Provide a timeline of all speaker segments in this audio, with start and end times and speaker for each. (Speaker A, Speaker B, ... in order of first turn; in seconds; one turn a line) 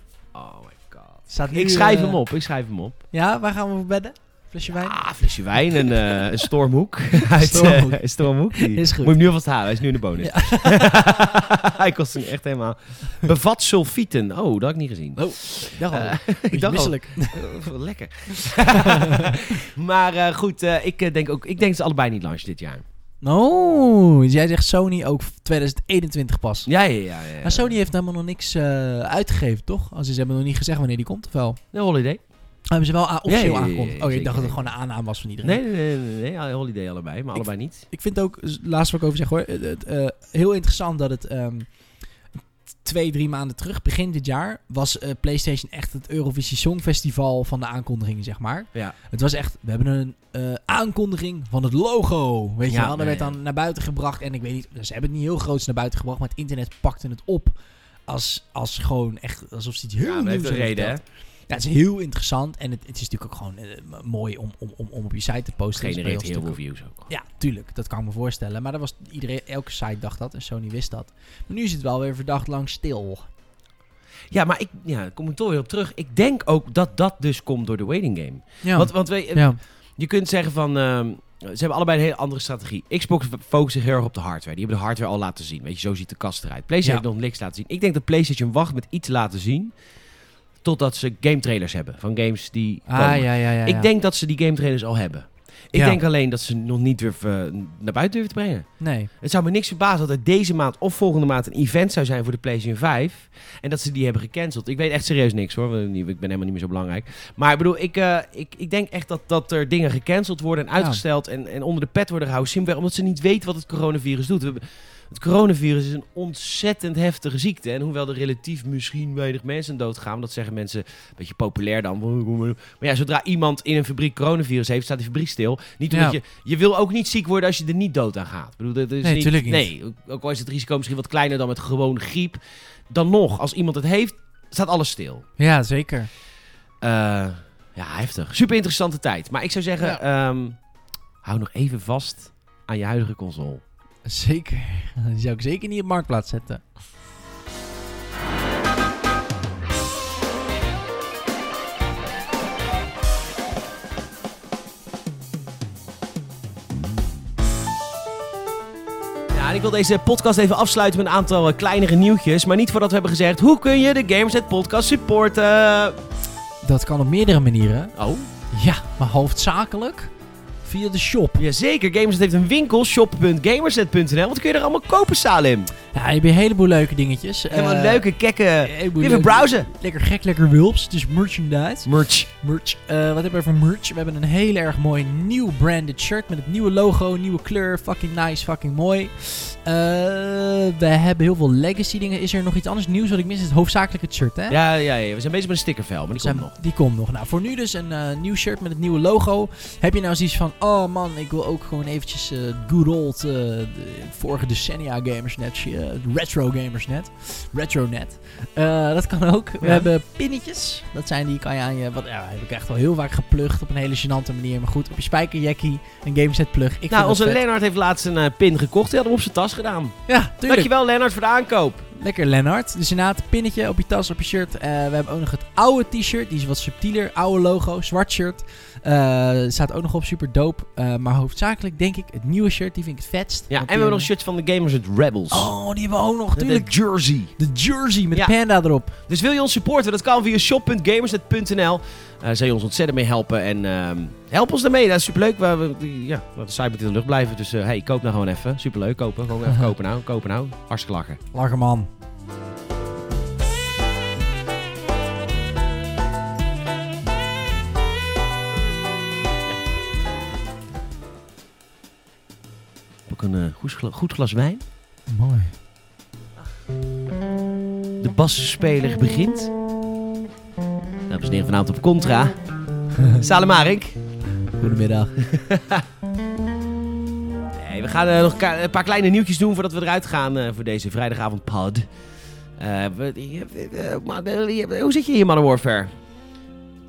Speaker A: 0.3-3.0
Speaker B: 1.3-2.2
Speaker B: 3.1-6.5
Speaker A: 4.7-22.8
Speaker B: 7.3-9.4
Speaker B: 10.2-10.9
Speaker B: 15.2-17.5
Speaker B: 18.4-19.2
Speaker B: 23.2-26.7
Speaker A: 26.6-27.7
Speaker B: 27.4-31.6
Speaker A: 31.7-32.3
Speaker B: 32.7-35.6
Speaker A: 33.2-34.7
Speaker A: 35.4-37.8
Speaker B: 37.3-57.5
Speaker A: 52.7-53.4
Speaker B: 58.1-73.3
Speaker A: 60.0-61.0
Speaker A: 65.7-67.1
Speaker A: 74.3-89.8
Speaker B: 78.6-79.6
Speaker A: 90.6-132.4
Speaker B: 92.8-93.9
Speaker B: 95.7-96.0
Speaker B: 98.8-99.1
Speaker B: 110.8-111.0
Speaker B: 125.9-126.2
Speaker B: 129.0-129.7
Speaker A: 132.9-135.2
Speaker B: 135.4-136.1
Speaker A: 136.8-140.7
Speaker A: 141.2-143.6
Speaker B: 144.0-146.7
Speaker A: 159.3-166.0
Speaker B: 166.6-167.9
Speaker A: 167.9-168.3
Speaker B: 168.5-170.1
Speaker B: 170.6-171.4
Speaker A: 171.3-175.7
Speaker B: 175.9-178.0
Speaker A: 177.5-179.7
Speaker B: 178.6-194.6
Speaker A: 181.8-182.3
Speaker A: 194.5-196.5
Speaker B: 196.2-217.4
Speaker A: 209.6-209.9
Speaker A: 216.9-221.9
Speaker B: 220.1-220.7
Speaker B: 221.9-234.1
Speaker A: 233.5-235.5
Speaker B: 235.3-238.9
Speaker A: 236.3-237.3
Speaker A: 238.1-251.2
Speaker B: 251.3-251.9
Speaker A: 263.1-264.6
Speaker B: 265.1-265.6
Speaker A: 268.0-269.5
Speaker A: 271.1-274.0
Speaker B: 274.5-275.1
Speaker A: 275.2-275.8
Speaker A: 277.5-281.9
Speaker A: 282.6-285.9